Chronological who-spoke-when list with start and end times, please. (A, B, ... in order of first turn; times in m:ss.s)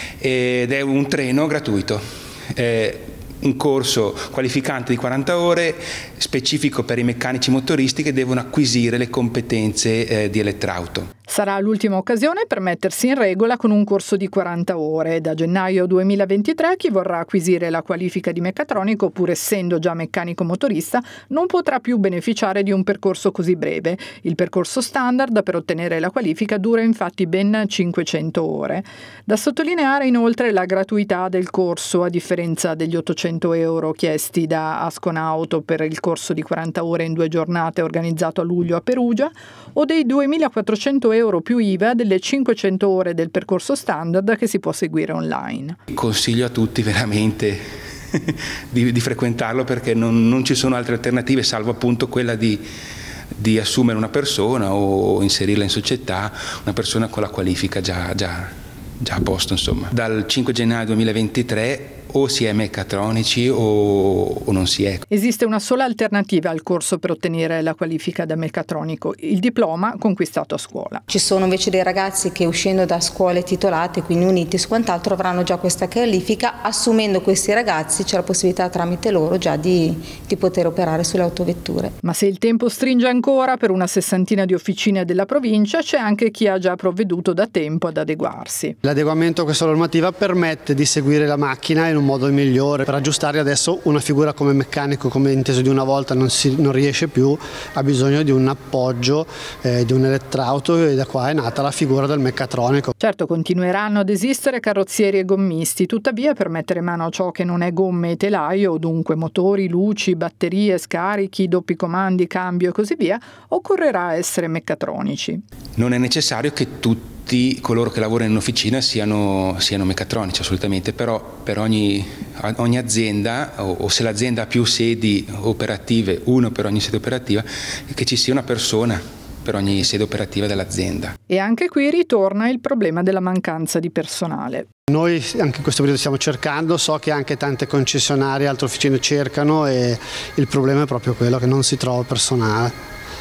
0:00.2-0:02.0 A
0:02.5-0:11.1 A
0:11.3-0:45.8 B
0:45.9-0:47.6 A
0:48.1-0:52.6 A
0:53.4-1:05.0 A
1:05.1-1:11.0 B
1:11.1-1:21.9 C
1:22.0-1:28.8 B
1:28.8-1:42.9 D
1:43.0-1:55.4 B
1:55.8-2:11.1 A
2:11.3-2:14.7 B
2:14.9-2:22.7 D